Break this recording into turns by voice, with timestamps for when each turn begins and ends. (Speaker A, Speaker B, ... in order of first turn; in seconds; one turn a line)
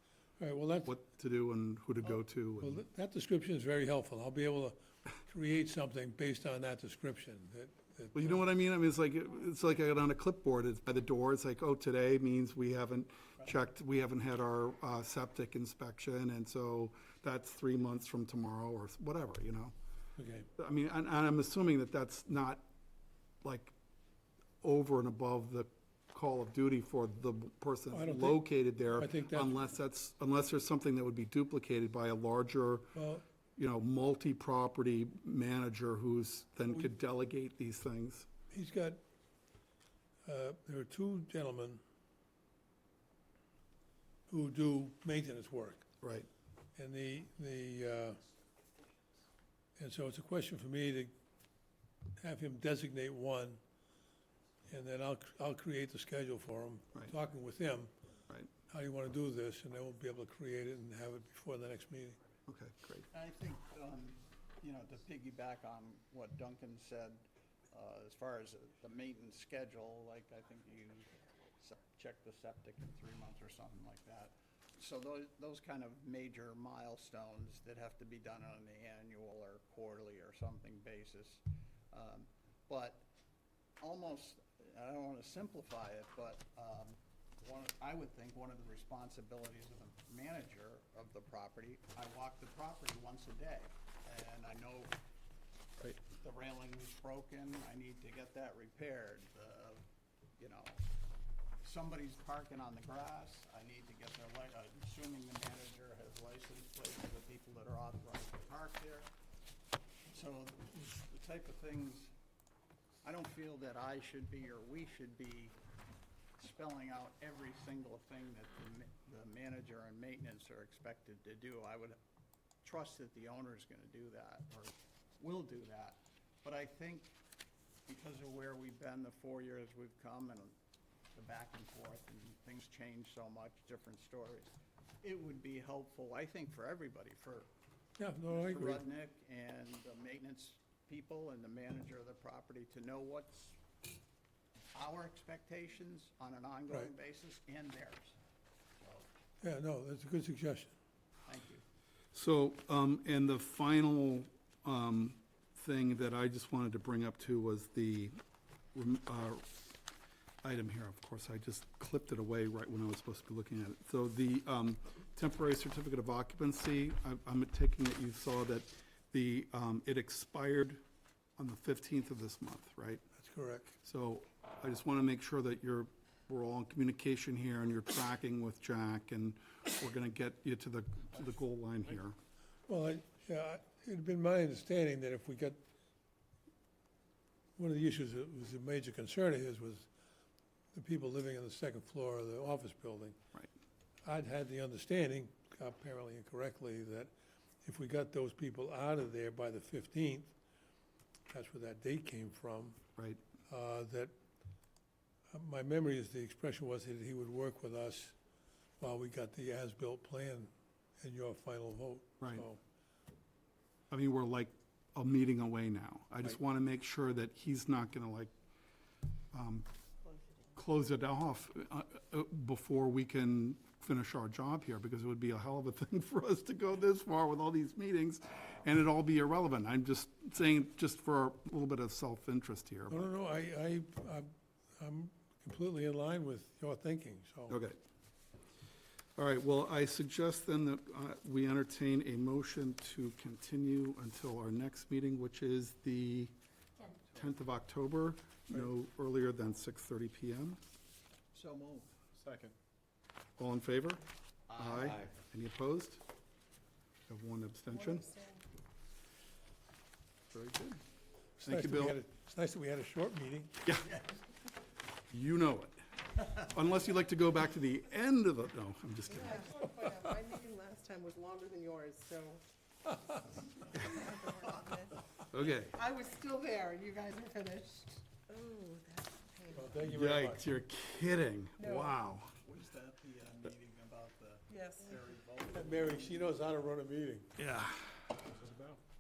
Speaker A: 0.4-1.0
Speaker B: 0.9-2.8
Speaker A: 2.6-8.4
Speaker B: 8.2-19.8
Speaker A: 20.2-20.5
Speaker B: 20.6-22.6
Speaker B: 23.4-23.7
Speaker B: 24.6-33.0
Speaker A: 27.9-29.6
Speaker A: 33.0-33.2
Speaker B: 33.6-38.3
Speaker A: 38.5-39.0
Speaker A: 40.2-41.8
Speaker A: 44.3-45.8
Speaker B: 46.0-46.3
Speaker A: 46.8-48.2
Speaker A: 49.8-51.1
Speaker A: 52.2-53.6
Speaker A: 54.7-57.9
Speaker A: 58.7-62.2
Speaker B: 62.5-63.1
Speaker C: 63.1-83.1
Speaker C: 83.8-95.0
Speaker C: 96.0-99.8
Speaker C: 100.4-100.8
Speaker C: 101.6-109.1
Speaker C: 110.1-112.1
Speaker C: 113.0-115.6
Speaker C: 116.4-122.0
Speaker C: 122.6-127.2
Speaker C: 127.9-130.6
Speaker C: 131.1-137.5
Speaker A: 138.0-138.8
Speaker C: 138.3-143.6
Speaker C: 144.7-148.2
Speaker C: 148.8-149.1
Speaker A: 149.4-150.7
Speaker C: 151.3-151.6
Speaker B: 152.1-158.2
Speaker B: 158.7-159.5
Speaker B: 160.4-170.8
Speaker B: 171.4-173.0
Speaker A: 173.2-173.8
Speaker B: 173.8-182.2
Speaker A: 182.7-185.6
Speaker A: 187.6-189.9
Speaker A: 190.7-193.2
Speaker A: 194.0-197.1
Speaker A: 197.6-200.3
Speaker A: 201.3-202.8
Speaker B: 203.0-203.2
Speaker A: 203.5-204.1
Speaker A: 205.3-208.2
Speaker A: 208.8-212.6
Speaker B: 213.9-218.3
Speaker B: 219.3-219.7
Speaker B: 220.6-233.1
Speaker A: 232.9-237.6
Speaker B: 237.5-237.8
Speaker B: 239.2-246.3
Speaker B: 247.0-250.6
Speaker C: 251.3-251.9
Speaker B: 253.4-254.0
Speaker C: 254.5-255.1
Speaker B: 254.6-256.0
Speaker B: 257.1-258.1
Speaker D: 257.7-258.4
Speaker B: 260.3-260.8
Speaker B: 261.4-262.0
Speaker A: 261.4-263.5
Speaker C: 263.9-264.2
Speaker B: 265.1-269.8
Speaker D: 269.1-272.4
Speaker D: 273.7-275.0
Speaker C: 273.9-274.1
Speaker B: 275.3-275.8
Speaker D: 275.6-279.7
Speaker A: 279.5-280.4
Speaker B: 279.8-282.3
Speaker D: 281.6-282.0
Speaker C: 282.4-286.3
Speaker D: 284.5-285.0
Speaker A: 285.5-287.3
Speaker B: 287.4-288.0
Speaker A: 288.4-288.7